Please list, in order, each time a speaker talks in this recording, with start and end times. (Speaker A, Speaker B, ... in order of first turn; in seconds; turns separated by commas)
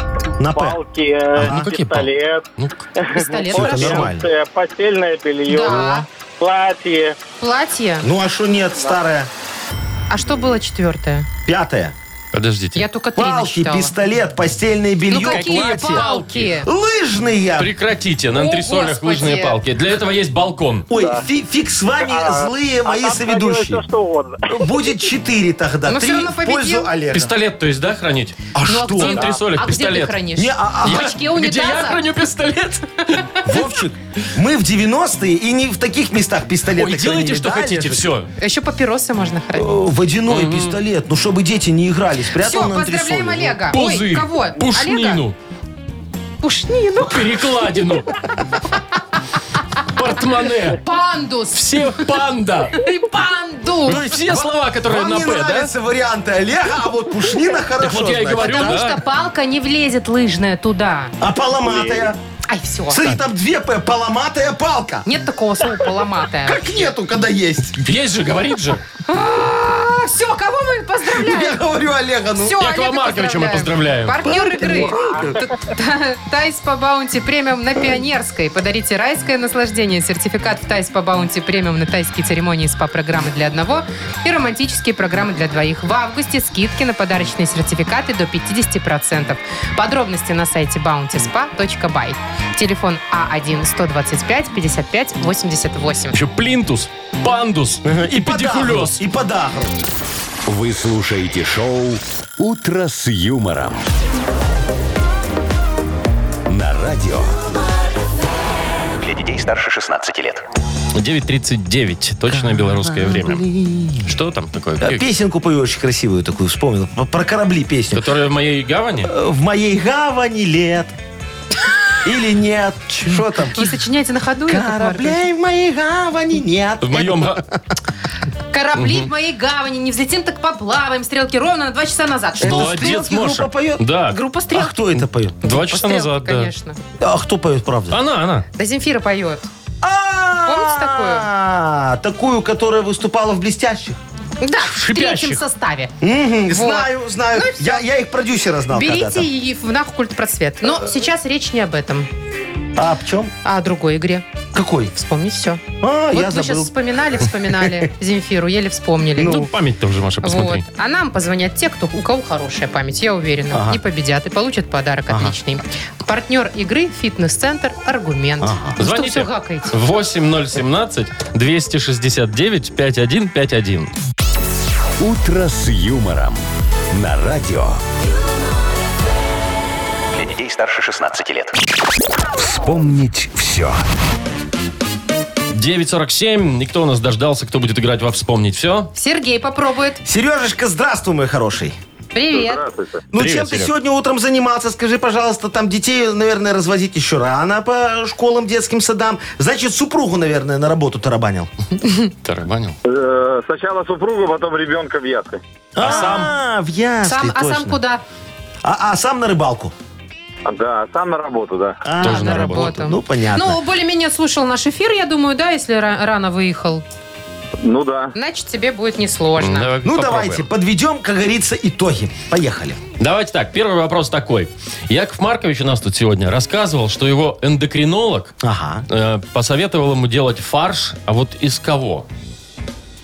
Speaker A: 0.4-0.8, Speaker B: 0.4-2.5, Speaker A: 1.3-1.7, Speaker C: 1.4-2.8, Speaker B: 3.0-7.2, Speaker D: 3.1-4.1, Speaker A: 3.5-4.3, Speaker D: 5.5-6.1, Speaker D: 7.4-8.1, Speaker A: 8.0-9.3, Speaker D: 10.1-11.3, Speaker A: 11.5-11.9, Speaker C: 12.3-12.8, Speaker D: 12.8-13.9, Speaker A: 13.2-16.1, Speaker D: 15.1-16.7, Speaker C: 15.1-16.6, Speaker A: 16.6-17.7, Speaker C: 17.6-20.9, Speaker D: 18.3-19.6, Speaker A: 20.9-23.8, Speaker B: 20.9-21.3, Speaker B: 22.0-24.9, Speaker A: 24.5-27.3, Speaker D: 25.9-26.9, Speaker C: 27.1-30.2, Speaker A: 28.5-29.4, Speaker D: 28.7-32.0, Speaker A: 30.4-31.1, Speaker C: 30.8-33.5, Speaker A: 33.5-38.1, Speaker C: 36.7-38.3, Speaker D: 38.4-39.7, Speaker A: 39.5-43.7, Speaker C: 40.3-40.8, Speaker D: 42.4-45.2, Speaker C: 43.7-45.4, Speaker D: 46.4-47.4, Speaker C: 47.0-48.1, Speaker C: 49.9-50.8, Speaker D: 50.7-52.1, Speaker C: 51.5-52.8, Speaker D: 52.7-54.2, Speaker C: 53.9-55.7, Speaker A: 54.3-58.8, Speaker C: 57.8-59.0, Speaker D: 58.4-61.1, Speaker A: 61.2-62.2, Speaker D: 62.5-63.0, Speaker A: 62.9-65.1, Speaker D: 65.0-66.9, Speaker A: 66.4-68.0, Speaker C: 67.8-68.8, Speaker D: 69.1-71.6, Speaker A: 71.1-72.6, Speaker D: 72.4-96.2, Speaker C: 72.6-74.2, Speaker A: 74.3-75.4, Speaker B: 74.9-75.3, Speaker C: 96.1-99.0, Speaker A: 97.8-99.8, Speaker E: 100.5-103.8, Speaker E: 106.5-107.4, Speaker F: 109.0-110.4, Speaker C: 111.0-113.5, Speaker A: 112.3-114.1, Speaker C: 114.0-115.1, Speaker A: 114.8-118.0, Speaker C: 117.9-119.1, Speaker A: 119.0-121.0, Speaker A: 122.0-123.8, Speaker D: 123.5-125.2, Speaker A: 124.5-127.6, Speaker C: 126.8-127.4, Speaker D: 128.5-133.0, Speaker C: 128.8-129.1, Speaker A: 132.4-133.8, Speaker C: 132.4-134.2, Speaker D: 134.1-134.8, Speaker A: 134.5-135.4, Speaker D: 135.4-136.8, Speaker C: 135.4-136.5, Speaker A: 137.0-138.0, Speaker C: 137.9-138.5, Speaker D: 138.6-139.5, Speaker A: 139.8-144.0, Speaker D: 140.4-141.3, Speaker D: 144.4-145.9, Speaker C: 144.6-145.4, Speaker A: 146.0-149.3, Speaker D: 146.5-147.8, Speaker D: 148.7-152.1, Speaker A: 152.8-153.3, Speaker D: 153.4-154.3, Speaker A: 154.5-154.9, Speaker D: 154.9-159.5, Speaker A: 155.8-156.7, Speaker A: 157.5-157.8, Speaker C: 159.2-160.7, Speaker D: 160.2-169.7, Speaker A: 163.5-163.8, Speaker A: 168.4-168.8, Speaker C: 168.8-173.9, Speaker E: 175.0-176.4, Speaker E: 176.9-177.8, Speaker F: 180.1-181.6, Speaker E: 182.3-183.8, Speaker C: 185.5-188.9, Speaker D: 188.9-190.0, Speaker A: 190.1-191.8, Speaker D: 192.1-192.7, Speaker B: 192.3-193.1, Speaker A: 193.1-201.5, Speaker C: 193.2-193.7, Speaker C: 202.2-202.8, Speaker B: 202.8-205.4, Speaker A: 205.8-207.8, Speaker D: 205.8-206.3, Speaker C: 205.8-206.3, Speaker D: 207.1-208.0, Speaker A: 208.6-209.7, Speaker B: 210.4-211.8, Speaker A: 211.8-213.6, Speaker D: 212.0-216.8, Speaker C: 212.0-212.8, Speaker B: 217.6-218.1, Speaker D: 218.2-219.7, Speaker C: 219.4-220.5, Speaker A: 219.8-222.8, Speaker C: 223.0-228.3, Speaker A: 228.4-228.8, Speaker C: 228.9-232.1